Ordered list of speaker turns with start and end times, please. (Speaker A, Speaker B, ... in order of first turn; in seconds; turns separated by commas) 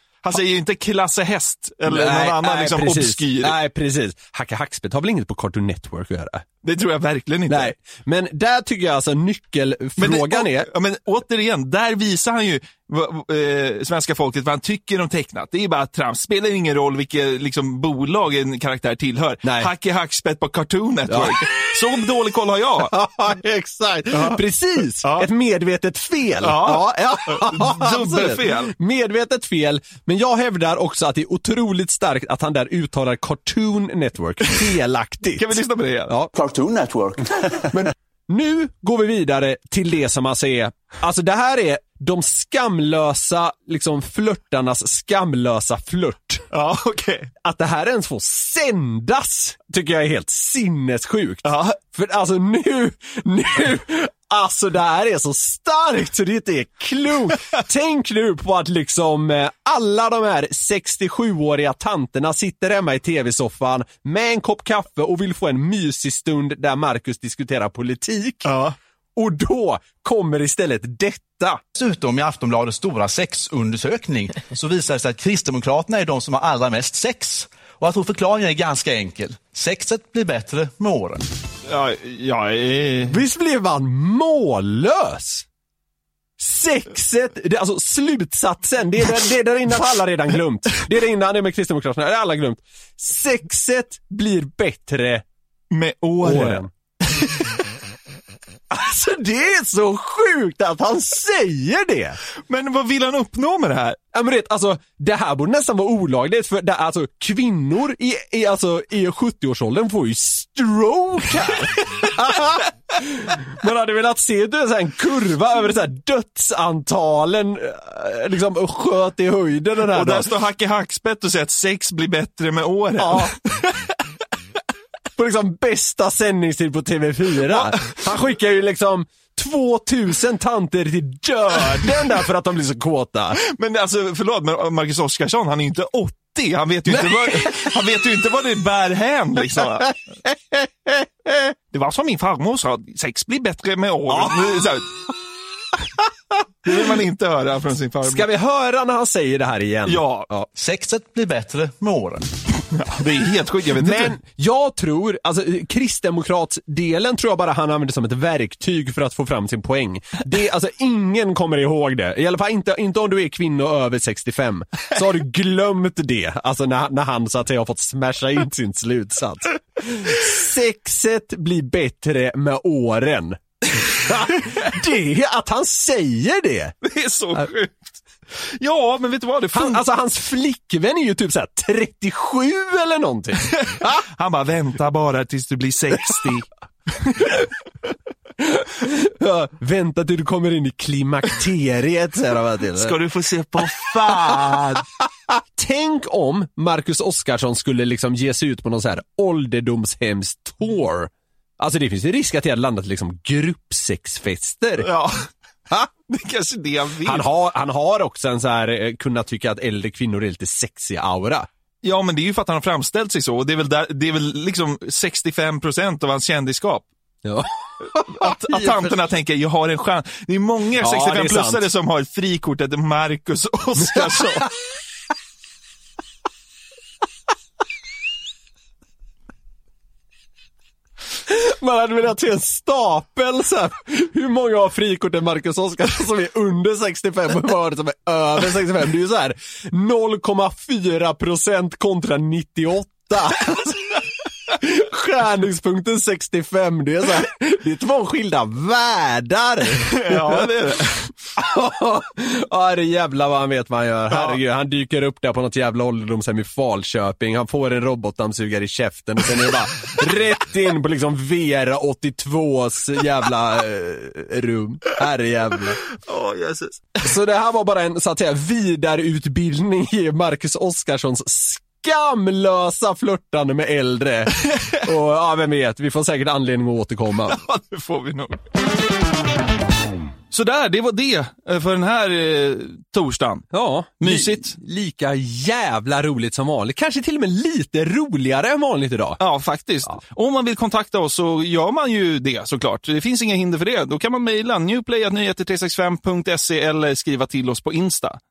Speaker A: 0.2-3.6, Speaker B: 1.9-6.5, Speaker A: 6.6-7.7, Speaker B: 7.5-10.7, Speaker A: 10.0-23.0, Speaker B: 19.4-19.7, Speaker B: 21.1-21.6, Speaker B: 22.8-36.3, Speaker A: 24.1-24.4, Speaker A: 25.0-25.3, Speaker A: 26.4-28.7, Speaker A: 35.4-36.1, Speaker C: 36.3-37.9, Speaker B: 37.7-46.5, Speaker A: 46.5-47.3, Speaker B: 47.4-68.5, Speaker A: 51.4-51.8, Speaker A: 68.5-68.8, Speaker B: 69.2-71.6, Speaker C: 71.7-81.2, Speaker A: 81.7-83.2, Speaker B: 83.1-85.5, Speaker B: 86.4-95.2, Speaker A: 95.7-96.6, Speaker B: 96.2-96.7, Speaker B: 98.7-102.2, Speaker A: 102.5-104.0, Speaker B: 104.1-120.3, Speaker A: 119.9-123.7, Speaker B: 123.0-123.3, Speaker B: 125.2-133.4, Speaker A: 127.5-127.9, Speaker A: 133.4-139.9, Speaker B: 136.9-137.6, Speaker B: 140.3-141.5, Speaker A: 141.7-145.0, Speaker B: 144.1-144.6, Speaker A: 146.6-148.3, Speaker B: 148.0-150.5, Speaker A: 149.9-150.3, Speaker C: 150.5-152.3, Speaker A: 152.7-154.2, Speaker B: 153.8-176.8, Speaker A: 176.8-179.8, Speaker B: 179.5-183.9, Speaker A: 183.5-187.3, Speaker B: 188.4-193.0, Speaker A: 192.8-194.8, Speaker B: 194.3-194.6, Speaker B: 195.6-204.9, Speaker A: 204.8-205.3, Speaker A: 206.1-207.3, Speaker B: 207.0-211.5, Speaker A: 211.8-216.9, Speaker B: 217.2-219.1, Speaker A: 218.1-224.5, Speaker B: 220.8-221.7, Speaker B: 223.8-224.5, Speaker B: 231.3-250.5, Speaker A: 249.9-251.1, Speaker B: 251.4-265.8, Speaker A: 254.1-254.4, Speaker A: 266.1-267.0, Speaker B: 267.0-277.4, Speaker A: 277.3-278.4, Speaker A: 280.3-283.5, Speaker B: 283.5-289.2, Speaker A: 284.0-284.6, Speaker A: 289.2-298.2